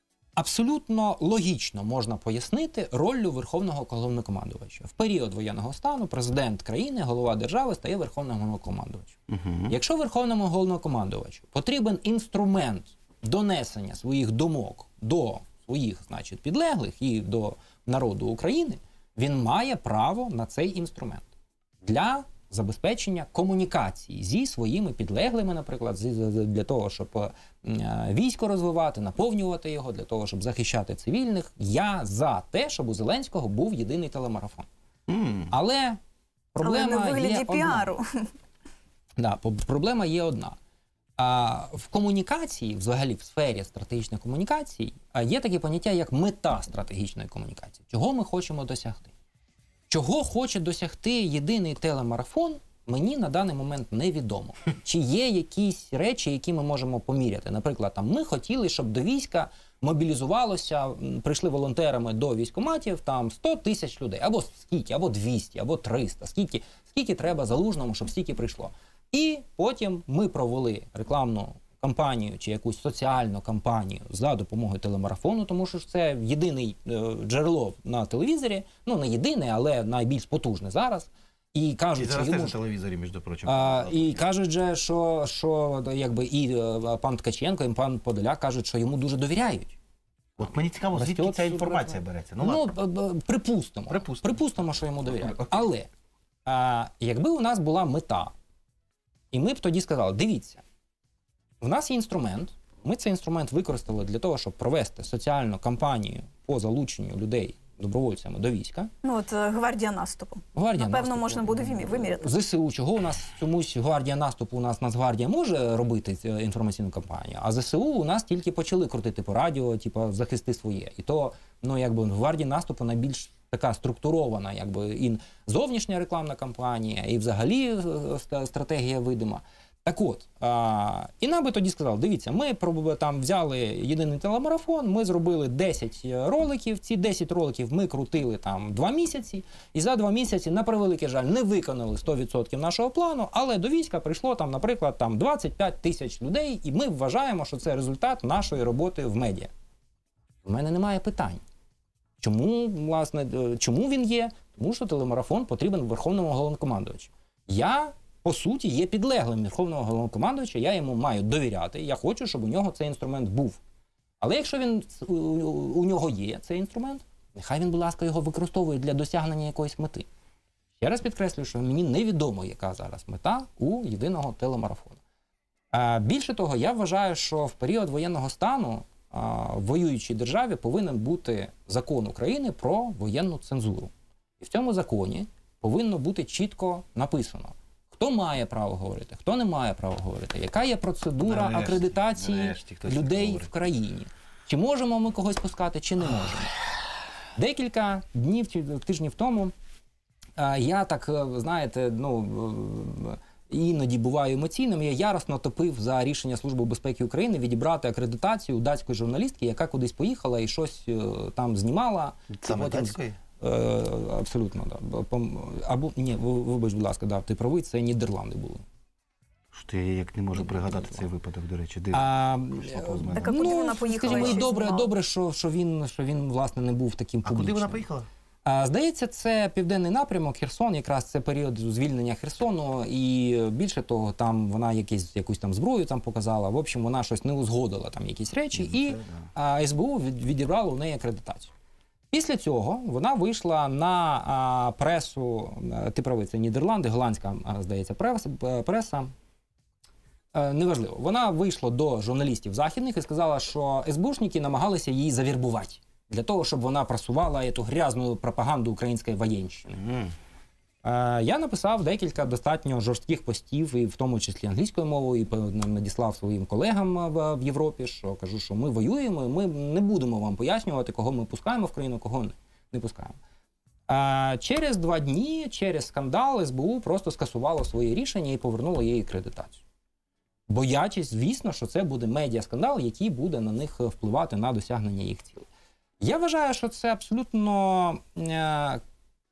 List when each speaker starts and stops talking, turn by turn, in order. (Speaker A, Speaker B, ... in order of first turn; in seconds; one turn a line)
Speaker A: 0.4-9.2
Speaker B: 9.3-9.7
Speaker A: 9.7-21.3
Speaker A: 21.8-34.7
Speaker B: 35.1-35.5
Speaker A: 35.5-36.0
Speaker A: 36.5-37.9
Speaker C: 36.6-38.3
Speaker A: 39.2-40.5
Speaker A: 41.2-49.1
Speaker A: 49.9-82.6
Speaker B: 82.0-84.2
Speaker A: 83.5-89.8
Speaker B: 90.4-92.7
Speaker A: 90.4-95.9
Speaker B: 93.9-94.3
Speaker B: 95.1-95.6
Speaker A: 96.5-98.3
Speaker A: 99.3-100.6
Speaker A: 101.6-108.9
Speaker C: 109.0-112.3
Speaker A: 110.5-149.5
Speaker A: 150.4-151.4
Speaker A: 152.2-163.6
Speaker A: 164.2-170.1
Speaker A: 170.8-175.0
Speaker A: 175.7-196.5
Speaker B: 191.2-193.5
Speaker A: 197.3-199.5
Speaker A: 200.4-218.6
Speaker B: 212.3-213.2
Speaker B: 219.5-224.4
Speaker A: 221.9-227.8
Speaker C: 223.1-224.9
Speaker B: 227.2-228.1
Speaker A: 228.4-241.5
Speaker B: 238.6-239.2
Speaker A: 242.1-249.1
Speaker A: 250.3-259.9
Speaker A: 260.8-273.1
Speaker A: 273.9-279.6
Speaker A: 280.5-285.5
Speaker A: 286.0-288.8